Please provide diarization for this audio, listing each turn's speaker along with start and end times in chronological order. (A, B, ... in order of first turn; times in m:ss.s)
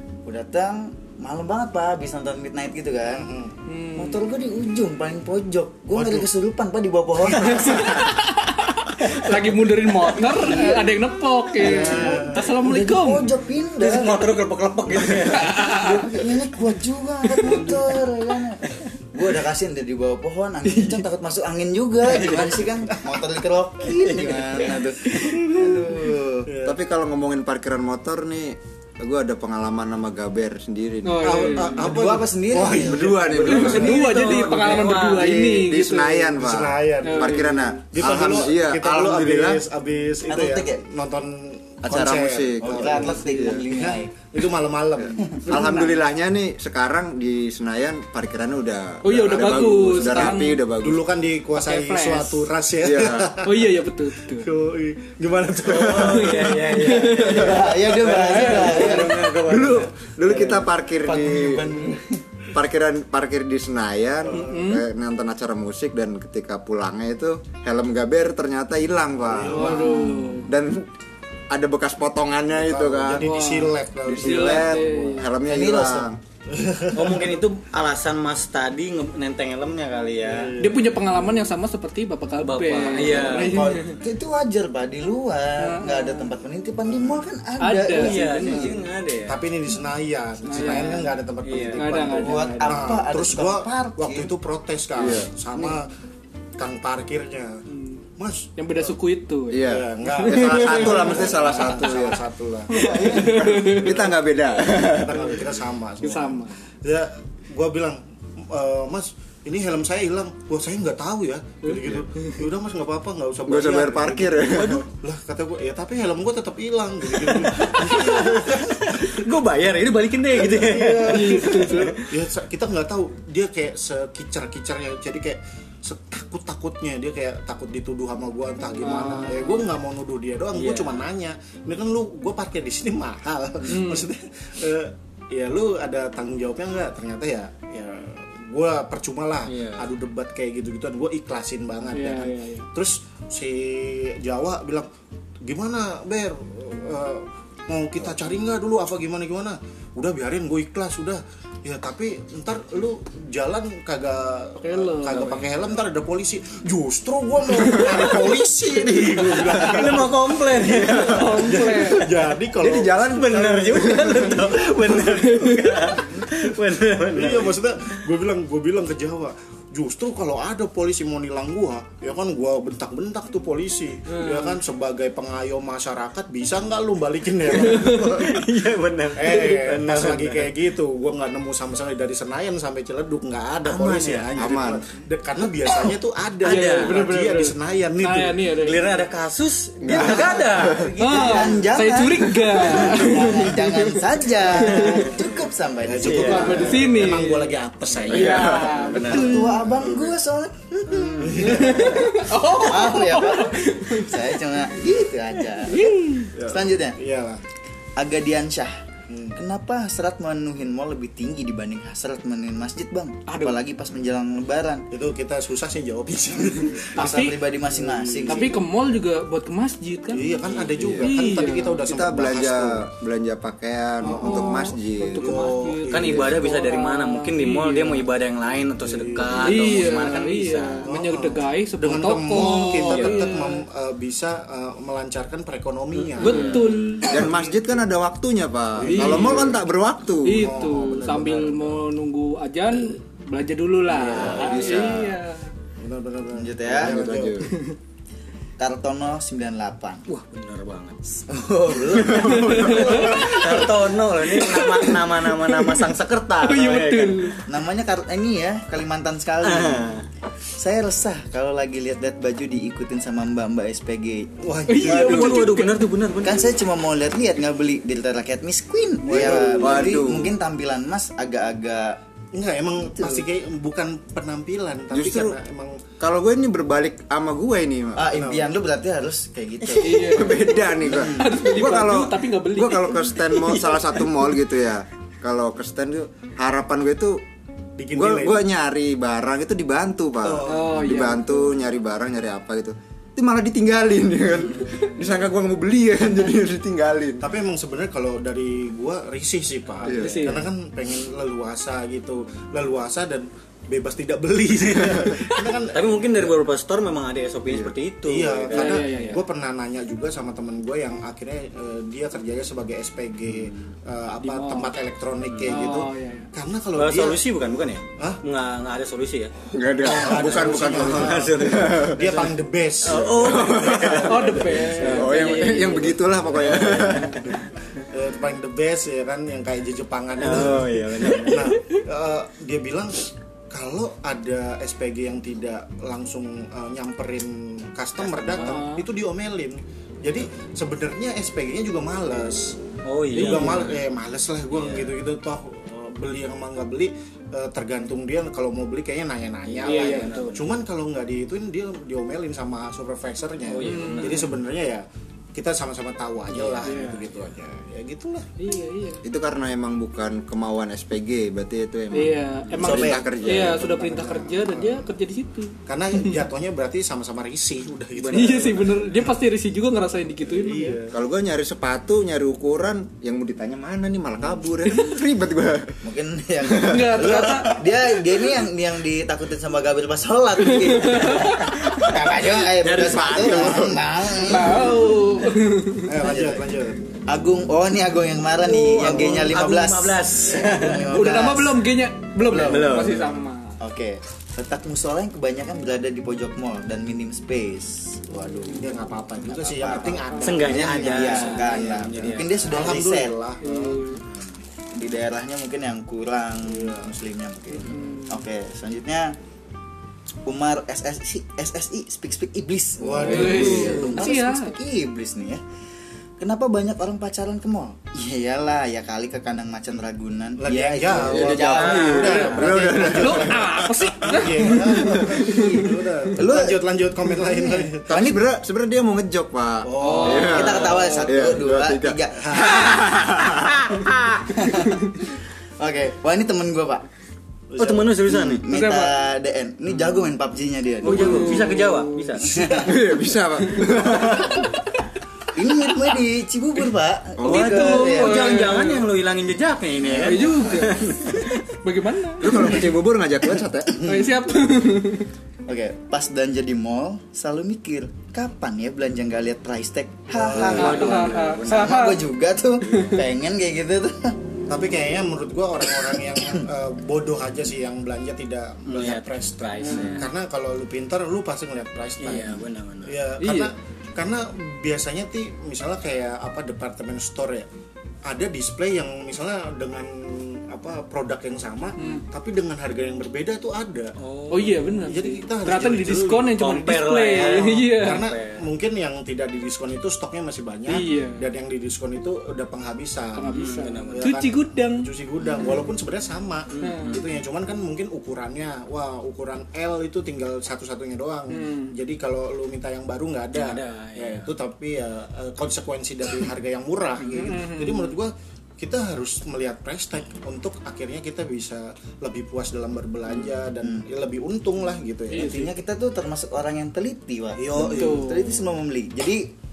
0:00.2-0:03.3 A
0:03.1-0:03.5 B
0:03.7-0:04.2 C
0:03.9-0:08.1 A
0:05.9-0:06.3 B
0:07.4-0:07.9 B
0:07.5-0:13.3 C
0:10.2-0:11.0 A
0:11.6-0:14.3 A
0:11.6-0:12.5 B
0:13.8-0:15.8 D
0:15.2-0:16.1 C
0:15.5-0:26.5 A
0:17.4-0:17.7 C
0:20.7-0:21.0 C
0:22.1-0:22.6 D
0:24.0-0:24.9 D
0:26.4-0:26.8 B
0:26.6-0:31.6 E
0:31.0-0:31.9 C
0:31.2-0:34.2 B
0:31.8-0:33.2 A
0:32.7-0:39.6 E
0:33.4-0:36.3 C
0:33.4-0:35.5 D
0:36.4-0:45.4 B
0:37.0-0:37.8 C
0:40.3-0:40.8 A
0:41.8-0:43.6 E
0:42.6-0:44.1 A
0:45.0-0:51.0 E
0:45.2-0:45.9 A
0:49.0-0:50.6 C
0:50.0-0:57.0 B
0:51.6-0:52.5 C
0:52.8-0:53.4 E
0:53.4-0:54.5 C
0:55.6-1:00.3 D
0:56.0-0:59.1 C
0:57.2-0:59.3 A
0:59.4-1:01.7 E
1:00.2-1:02.2 A
1:02.5-1:10.9 E
1:04.2-1:04.6 B
1:04.3-1:04.8 C
1:09.3-1:10.2 B
1:09.5-1:10.5 C
1:11.5-1:13.3 E
1:12.5-1:14.9 B
1:13.2-1:15.3 C
1:14.0-1:16.2 E
1:15.4-1:16.1 A
1:16.5-1:17.4 B
1:16.9-1:20.5 D
1:20.2-1:20.9 B
1:20.6-1:24.0 C
1:22.4-1:23.7 D
1:23.0-1:28.8 A
1:25.6-1:26.3 C
1:26.9-1:27.2 B
1:27.6-1:28.8 C
1:27.9-1:29.4 D
1:29.3-1:35.9 B
1:30.4-1:31.2 C
1:31.4-1:32.2 D
1:31.7-1:32.9 C
1:32.1-1:34.3 A
1:35.0-1:35.3 E
1:36.6-1:37.6 B
1:37.7-1:38.0 C
1:38.2-1:38.9 B
1:38.6-1:42.2 C
1:39.5-1:45.3 E
1:39.6-1:43.4 B
1:42.7-1:44.7 C
1:44.7-1:59.2 B
1:46.0-1:46.6 C
1:51.6-1:52.3 C
1:53.5-1:54.8 E
1:54.5-1:54.8 D
1:57.0-2:02.1 D
2:00.3-2:24.9 B
2:01.1-2:02.0 C
2:08.8-2:09.6 C
2:10.5-2:11.0 D
2:13.7-2:14.1 C
2:19.5-2:19.9 D
2:21.9-2:22.6 C
2:25.4-2:45.0 B
2:34.6-2:35.4 C
2:35.1-2:35.4 D
2:39.1-2:41.9 D
2:39.3-2:40.0 C
2:40.7-2:42.1 C
2:42.4-2:47.6 D
2:43.3-2:44.2 E
2:45.0-2:45.7 C
2:47.1-2:58.4 B
2:54.1-2:54.6 C
2:57.5-2:58.3 C
2:57.6-3:00.5 D
2:59.2-3:08.4 B
3:03.6-3:04.3 D
3:04.4-3:04.8 E
3:06.4-3:07.0 D
3:06.4-3:09.1 C
3:08.6-3:11.7 D
3:09.8-3:10.9 E
3:11.0-3:13.8 C
3:11.0-3:16.8 A
3:14.6-3:15.1 C
3:14.6-3:15.1 D
3:15.8-3:20.0 B
3:16.0-3:16.7 D
3:16.1-3:17.5 C
3:18.1-3:18.8 E
3:18.1-3:19.6 C
3:18.1-3:19.4 D
3:19.0-3:27.0 A
3:20.9-3:21.8 D
3:21.2-3:22.0 B
3:21.4-3:24.3 C
3:25.7-3:26.3 C
3:26.3-3:27.4 B
3:28.0-3:28.8 A
3:29.1-3:29.4 B
3:29.3-3:34.8 A
3:33.3-3:33.6 C
3:34.9-3:38.6 B
3:37.0-3:38.6 A
3:37.0-3:37.4 C
3:38.3-3:40.5 C
3:40.1-3:42.8 B
3:40.7-3:41.1 E
3:41.0-3:42.0 C
3:41.9-3:45.5 E
3:44.0-3:48.0 C
3:45.1-3:46.4 B
3:45.9-3:50.9 D
3:48.8-3:49.9 B
3:49.4-3:53.6 C
3:50.8-3:57.4 B
3:52.8-3:53.3 D
3:55.9-3:56.8 D
3:56.2-3:57.4 C
3:57.0-4:00.5 E
3:58.8-3:59.6 B
3:58.9-3:59.6 C
4:00.2-4:05.4 C
4:00.3-4:01.8 B
4:03.9-4:05.2 E
4:04.1-4:04.6 B
4:05.8-4:07.4 B
4:06.3-4:07.1 A
4:06.7-4:07.5 E
4:07.5-4:07.7 C
4:08.6-4:10.0 A
4:10.1-4:11.0 D
4:11.1-4:12.9 A
4:11.9-4:13.1 E
4:12.0-4:17.4 D
4:12.4-4:13.6 C
4:14.3-4:15.8 C
4:16.4-4:17.4 C
4:17.4-4:19.9 A
4:19.4-4:20.0 D
4:20.6-4:24.3 A
4:24.4-4:25.5 B
4:24.7-4:25.9 C
4:24.8-4:26.5 D
4:26.2-4:32.0 A
4:29.0-4:30.1 B
4:29.1-4:30.3 E
4:32.3-4:35.8 B
4:33.0-4:33.2 A
4:34.9-4:35.4 E
4:36.0-4:38.1 E
4:37.9-4:41.4 A
4:38.2-4:38.5 B
4:39.7-4:47.2 E
4:39.8-4:44.1 C
4:47.8-4:48.5 B
4:47.9-4:57.3 E
4:50.2-4:50.9 B
4:50.5-4:51.5 C
4:57.2-5:06.3 B
4:59.8-5:00.4 E
4:59.8-5:00.5 C
5:05.7-5:09.2 D
5:07.5-5:07.7 E
5:08.0-5:17.2 B
5:08.5-5:09.2 C
5:14.2-5:14.7 C
5:15.4-5:16.3 C
5:16.8-5:19.3 D
5:19.5-5:22.3 E
5:19.8-5:25.7 B
5:20.0-5:22.0 D
5:22.8-5:25.9 D
5:22.9-5:27.3 E
5:24.0-5:26.1 C
5:26.3-5:42.6 B
5:26.7-5:27.2 C
5:30.2-5:31.6 D
5:38.0-5:38.6 D
5:38.3-5:38.8 C
5:42.8-5:43.8 D
5:43.1-5:43.7 C
5:43.1-5:58.3 B
5:44.5-5:44.9 D
5:49.5-5:50.5 D
5:49.6-5:50.3 C
5:53.4-5:54.3 D
5:53.6-5:54.3 C
5:56.6-5:57.0 C
5:58.4-5:59.0 C
5:59.0-6:04.0 E
6:01.9-6:06.2 C
6:02.6-6:04.9 B
6:05.6-6:09.0 B
6:07.9-6:08.8 D
6:08.1-6:10.8 C
6:10.2-6:10.9 B
6:10.9-6:15.8 E
6:14.6-6:15.1 C
6:15.8-6:25.3 A
6:16.4-6:17.6 E
6:16.6-6:17.6 C
6:20.6-6:21.5 C
6:22.6-6:23.8 D
6:22.8-6:23.7 E
6:24.1-6:25.9 C
6:25.8-6:26.8 B
6:26.0-6:26.4 A
6:27.1-6:31.7 A
6:28.4-6:30.9 D
6:30.8-6:33.5 C
6:32.3-6:32.9 A
6:32.3-6:33.1 D
6:33.6-6:43.1 A
6:38.5-6:44.0 B
6:40.2-6:42.6 D
6:43.4-6:44.0 C
6:44.7-6:49.2 A
6:46.5-6:46.9 B
6:47.6-6:48.2 C
6:50.2-6:55.4 A
6:52.8-6:54.0 B
6:53.0-6:54.5 C
6:53.3-6:53.7 E
6:53.3-6:53.8 D
6:56.2-7:02.8 A
7:00.4-7:07.9 B
7:01.0-7:04.2 E
7:01.5-7:02.2 D
7:01.5-7:05.7 C
7:04.7-7:06.6 A
7:04.8-7:05.2 E
7:07.2-7:08.2 A
7:07.9-7:14.3 E
7:09.6-7:10.8 B
7:09.8-7:10.6 C
7:10.2-7:16.8 A
7:12.2-7:12.7 B
7:17.5-7:18.0 B
7:17.6-7:18.4 D
7:18.1-7:21.5 A
7:18.5-7:19.0 C
7:20.8-7:22.3 D
7:20.8-7:22.4 C
7:22.3-7:22.8 A
7:22.6-7:24.5 E
7:25.3-7:28.5 A
7:27.2-7:27.5 E
7:27.2-7:31.3 D
7:27.3-7:28.9 C
7:29.8-7:30.3 B
7:30.0-7:32.7 C
7:32.2-7:33.9 E
7:33.7-7:35.1 C
7:35.4-7:44.2 A
7:40.1-7:41.1 B
7:40.3-7:41.8 E
7:40.5-7:42.1 C
7:40.6-7:41.4 D
7:42.7-7:43.0 C
7:44.5-7:57.5 B
7:48.6-7:50.1 D
7:49.6-7:50.0 C
7:52.0-7:53.0 D
7:53.2-7:53.5 C
7:58.0-8:03.9 B
8:01.8-8:02.0 C
8:04.0-8:04.9 D
8:04.3-8:08.0 C
8:04.8-8:06.4 B
8:06.2-8:08.4 D
8:07.1-8:35.5 B
8:10.7-8:11.2 C
8:13.1-8:14.9 C
8:13.3-8:14.1 D
8:16.5-8:17.0 D
8:16.6-8:17.0 C
8:21.3-8:21.7 C
8:23.3-8:24.3 D
8:27.1-8:27.9 C
8:35.1-8:35.5 C
8:35.2-8:39.3 A
8:37.4-8:38.2 B
8:37.5-8:38.4 C